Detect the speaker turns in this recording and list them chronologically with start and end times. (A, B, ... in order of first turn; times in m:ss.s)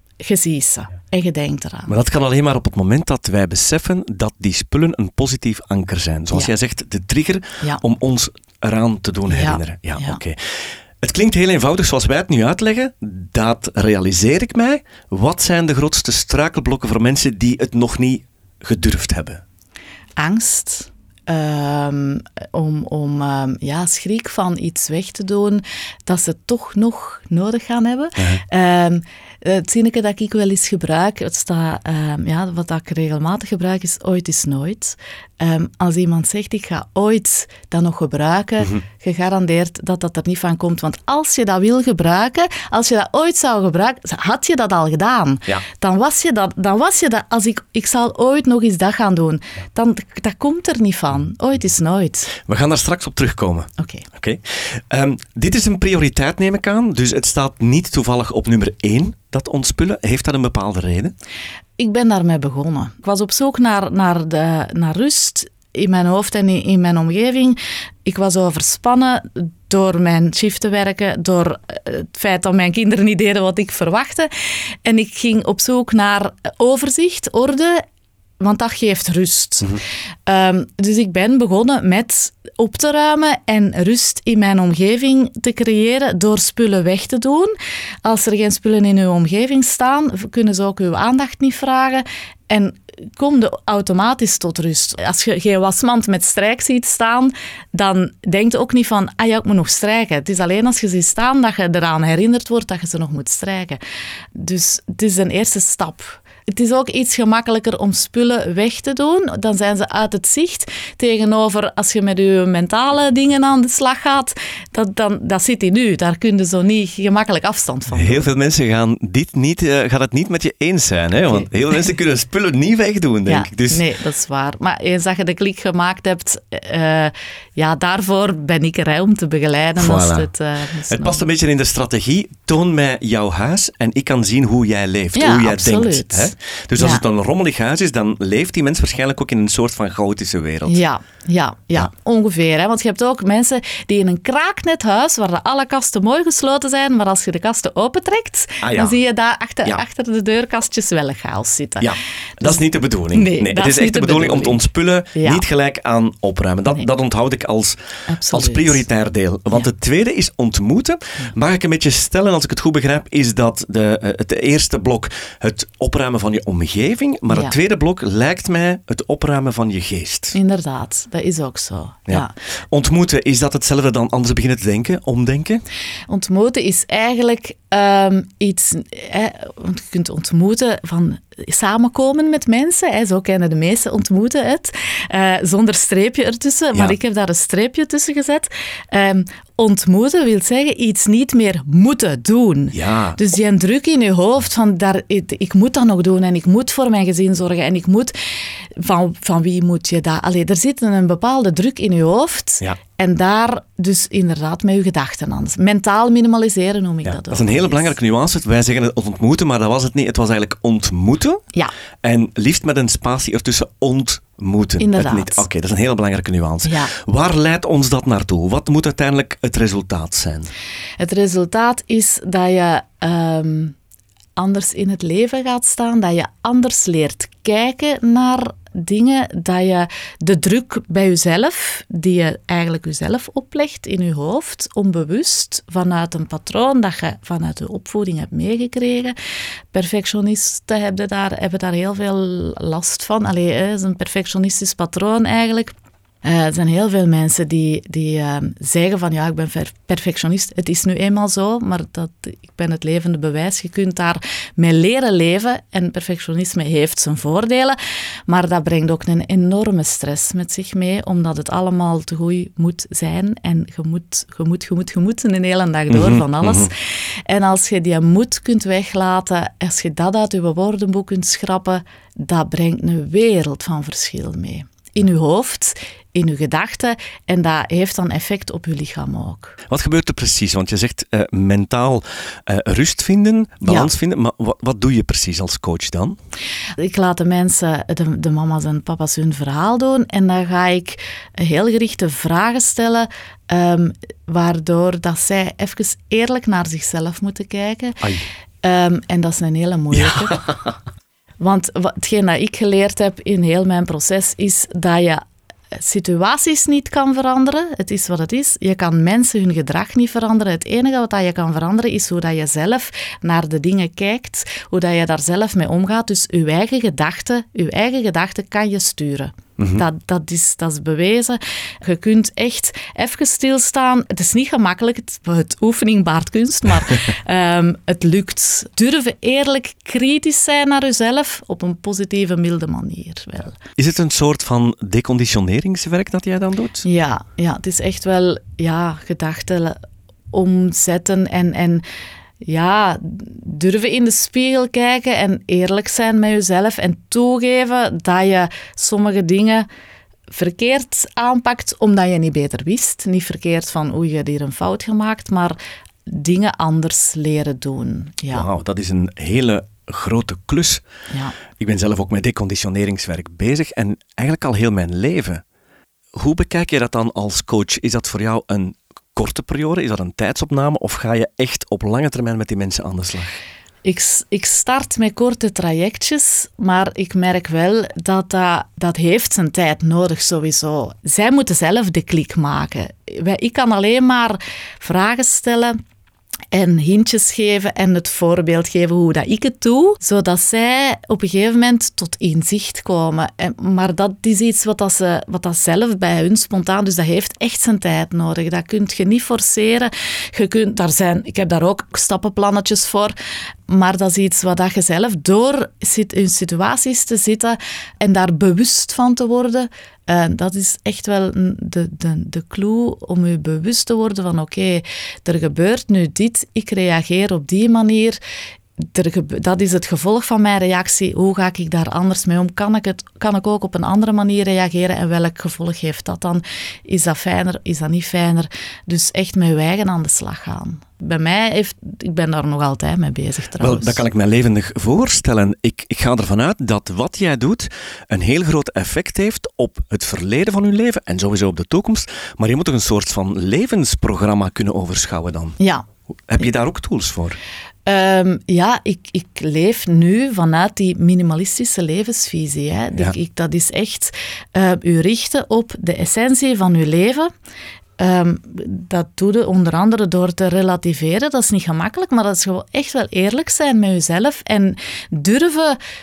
0:00.2-0:01.9 A
0:01.9-0:19.4 B
0:09.3-0:10.2 A
0:20.2-0:52.3 A
0:52.3-1:01.1 B
0:53.8-0:54.0 A
1:01.8-1:17.8 A
1:18.4-1:43.8 A
1:44.3-1:58.3 A
1:57.9-2:03.8 B
2:03.2-2:11.2 A
2:09.8-2:10.3 B
2:10.9-2:20.8 B
2:15.1-2:17.0 A
2:20.6-2:31.9 A
2:28.6-2:29.0 B
2:31.8-2:37.8 B
2:32.4-2:34.6 A
2:35.1-2:35.4 A
2:38.1-2:38.8 A
2:38.3-2:50.3 B
2:50.3-2:52.3 A
2:52.1-2:55.6 B
2:56.1-3:18.1 A
3:12.7-3:13.2 B
3:18.7-3:27.9 A
3:27.0-3:31.4 B
3:32.0-3:40.5 B
3:34.8-3:35.4 A
3:36.6-3:36.9 A
3:41.0-3:43.8 A
3:44.4-3:59.1 A
3:59.7-4:39.6 A
4:25.9-4:26.7 B
4:39.7-4:46.2 B
4:43.6-4:43.9 A
4:46.8-4:58.0 A
4:58.6-5:00.5 A
4:59.9-5:00.7 B
5:01.4-5:33.6 A
5:19.6-5:19.8 B
5:33.8-5:36.8 B
5:36.8-5:39.8 A
5:40.3-5:41.8 A
5:42.4-5:49.7 A
5:50.3-5:55.6 A
5:56.1-5:58.5 A
5:58.3-6:00.8 B
6:01.1-6:01.4 A
6:01.5-6:05.4 B
6:06.1-6:13.4 B
6:13.8-6:25.8 A
6:26.5-6:43.1 A
6:43.7-6:58.2 A
6:58.8-7:14.0 A
7:13.6-7:25.6 B
7:25.6-7:25.8 A
7:26.3-7:27.4 B
7:27.8-7:37.3 A
7:38.0-7:45.8 A